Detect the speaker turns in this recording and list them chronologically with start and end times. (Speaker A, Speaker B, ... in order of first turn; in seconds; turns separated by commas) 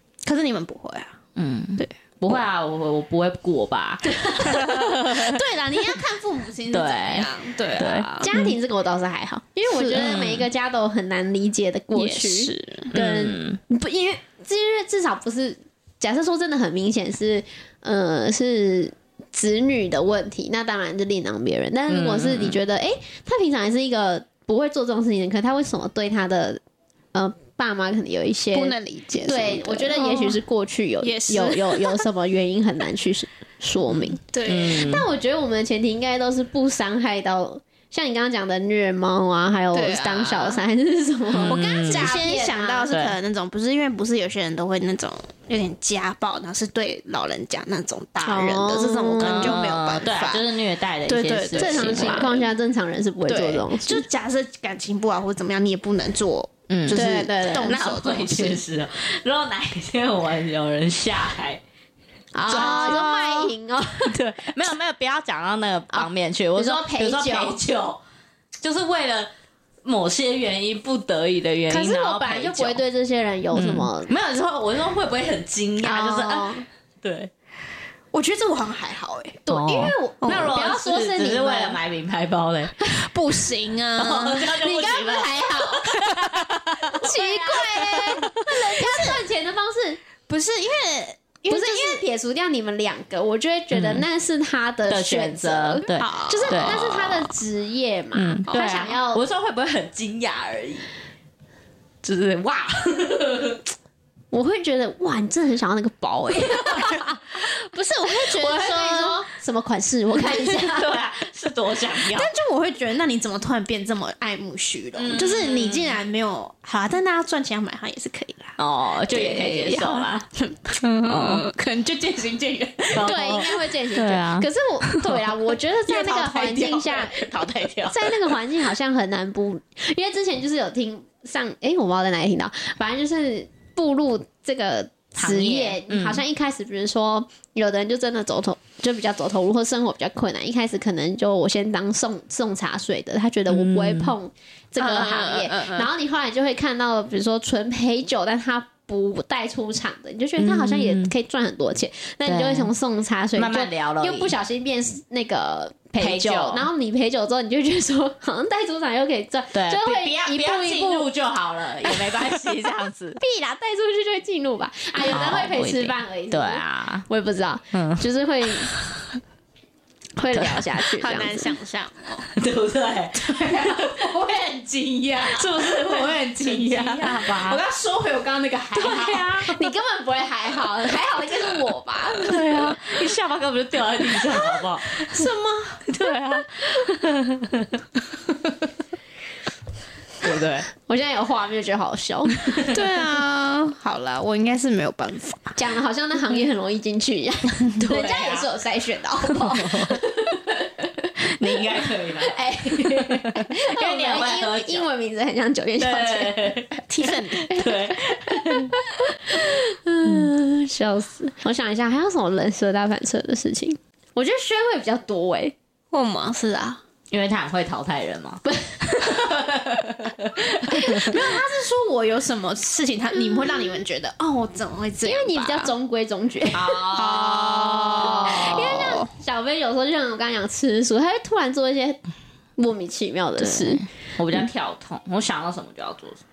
Speaker A: 0.2-1.2, Speaker B: 1.4-5.4, Speaker A: 4.4-8.3, Speaker B: 6.7-8.5, Speaker C: 8.2-26.6, Speaker A: 9.7-10.2, Speaker B: 9.9-10.5, Speaker A: 11.9-12.9, Speaker B: 12.9-13.6, Speaker B: 21.9-22.6, Speaker C: 27.1-42.9, Speaker A: 28.5-30.4, Speaker A: 31.0-32.0, Speaker B: 34.0-35.1, Speaker A: 34.3-34.9, Speaker A: 39.7-40.6, Speaker B: 41.3-42.1, Speaker A: 41.4-50.4, Speaker C: 48.2-49.6, Speaker B: 49.2-52.3, Speaker A: 51.0-52.5, Speaker C: 51.5-54.0, Speaker A: 53.3-58.6, Speaker B: 56.7-61.6, Speaker C: 56.9-57.8, Speaker C: 62.3-64.2, Speaker A: 62.5-63.1, Speaker B: 62.5-63.5, Speaker B: 64.0-68.0, Speaker C: 65.9-67.6, Speaker B: 68.6-69.3, Speaker B: 69.8-72.8, Speaker C: 71.7-74.1, Speaker B: 73.5-77.3, Speaker C: 75.8-76.7, Speaker A: 78.1-79.4, Speaker C: 79.5-81.8, Speaker B: 79.5-82.8, Speaker A: 80.2-80.5, Speaker A: 82.9-84.5, Speaker B: 84.0-87.1, Speaker C: 84.5-85.9, Speaker A: 85.8-89.2, Speaker C: 87.0-90.0, Speaker A: 90.3-92.0, Speaker C: 91.5-99.2, Speaker B: 93.7-94.1, Speaker B: 94.9-97.3, Speaker A: 96.0-96.8, Speaker B: 98.1-100.9, Speaker A: 98.5-98.7, Speaker B: 102.0-103.6, Speaker C: 104.3-107.4, Speaker A: 107.4-109.3, Speaker C: 108.0-111.0, Speaker B: 110.2-112.3, Speaker A: 112.0-118.6, Speaker B: 114.9-116.0, Speaker B: 118.6-120.3, Speaker A: 119.1-123.1, Speaker B: 121.0-121.5, Speaker B: 122.9-125.2, Speaker C: 122.9-127.3, Speaker A: 125.9-128.3, Speaker C: 127.9-161.1, Speaker B: 135.2-136.2, Speaker B: 143.5-144.1, Speaker A: 144.8-145.9, Speaker B: 150.4-151.1, Speaker B: 152.2-152.7, Speaker B: 153.4-154.4, Speaker B: 156.0-156.7, Speaker B: 159.5-163.2, Speaker C: 163.2-168.7, Speaker B: 165.1-167.0, Speaker B: 167.7-168.1, Speaker C: 170.2-171.5, Speaker B: 170.3-170.7, Speaker A: 170.9-172.3, Speaker B: 172.3-174.0, Speaker A: 173.1-179.4, Speaker B: 175.2-177.6, Speaker B: 178.7-179.5, Speaker C: 178.9-182.4, Speaker B: 182.2-185.3, Speaker A: 182.2-182.9, Speaker A: 184.0-185.9, Speaker B: 185.8-188.7, Speaker B: 190.2-190.7, Speaker C: 190.8-192.7, Speaker B: 192.4-192.7, Speaker A: 192.6-195.6, Speaker C: 195.6-200.9, Speaker B: 197.8-198.5, Speaker B: 199.2-200.0, Speaker B: 201.2-204.9, Speaker C: 201.5-206.7, Speaker B: 205.8-206.7, Speaker A: 206.9-207.6, Speaker C: 207.5-215.5, Speaker B: 207.5-208.8, Speaker A: 215.9-216.8, Speaker B: 217.1-221.1, Speaker C: 218.5-219.2, Speaker C: 220.7-221.3, Speaker A: 220.7-225.7, Speaker C: 225.0-226.9, Speaker B: 226.5-228.6, Speaker A: 226.9-229.1, Speaker C: 228.0-232.0, Speaker C: 232.6-233.9, Speaker B: 233.4-236.2